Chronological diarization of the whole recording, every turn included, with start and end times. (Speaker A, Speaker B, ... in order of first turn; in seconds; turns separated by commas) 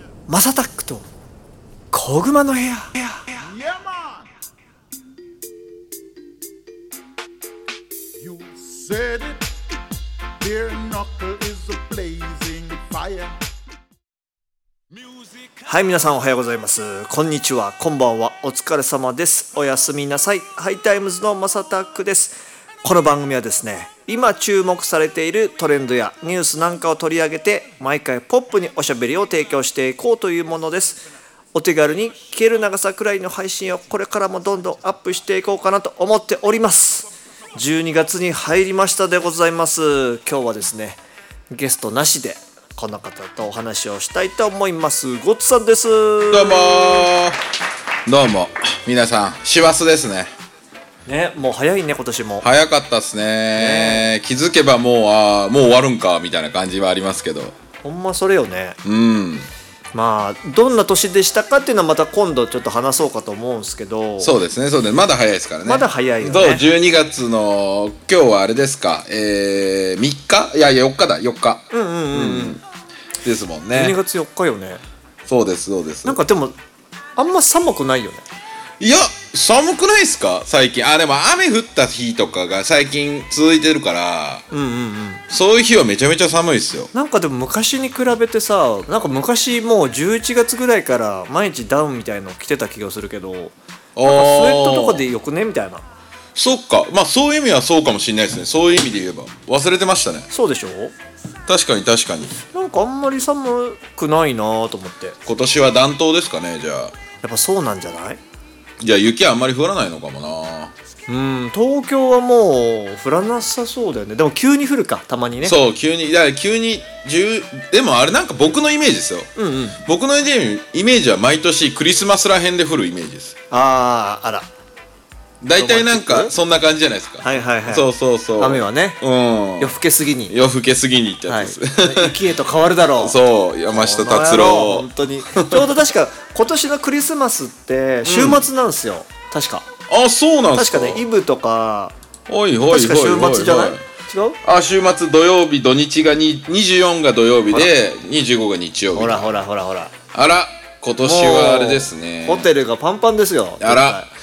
Speaker A: 0.3-1.1, Speaker A: 1.9-3.2, Speaker B: 3.5-4.0, Speaker B: 8.2-9.4, Speaker B: 10.4-13.4, Speaker A: 15.6-47.1, Speaker C: 46.3-47.4, Speaker C: 48.1-50.3, Speaker A: 51.0-52.5, Speaker C: 52.4-57.5, Speaker A: 53.5-54.1, Speaker A: 57.8-58.8, Speaker C: 58.8-59.5, Speaker A: 59.9-64.3, Speaker C: 64.2-72.6, Speaker A: 65.7-66.7, Speaker A: 71.7-72.6, Speaker C: 73.2-74.0, Speaker A: 73.7-74.8, Speaker C: 75.3-76.2, Speaker A: 76.0-76.6, Speaker A: 77.2-78.2, Speaker C: 78.8-84.5, Speaker A: 84.5-85.2, Speaker C: 85.3-86.9, Speaker A: 86.9-95.8, Speaker C: 94.0-95.1, Speaker C: 96.3-100.3, Speaker A: 100.3-100.9, Speaker C: 101.5-102.3, Speaker A: 102.5-105.2, Speaker C: 105.2-106.9, Speaker A: 107.2-108.2, Speaker C: 108.8-110.7, Speaker A: 111.1-115.6, Speaker C: 115.4-119.3, Speaker A: 119.3-119.8, Speaker C: 119.8-123.3, Speaker A: 123.5-124.5, Speaker C: 125.4-129.8, Speaker A: 125.5-126.3, Speaker A: 127.2-129.0, Speaker A: 129.6-130.3, Speaker C: 130.3-132.2, Speaker A: 131.3-139.7, Speaker C: 133.0-135.7, Speaker C: 138.0-138.5, Speaker C: 139.9-141.0, Speaker A: 140.5-141.9, Speaker C: 142.3-143.8, Speaker A: 142.6-144.4, Speaker C: 144.4-149.4, Speaker A: 148.9-149.9, Speaker C: 150.1-152.5, Speaker A: 151.0-154.1, Speaker C: 153.6-154.0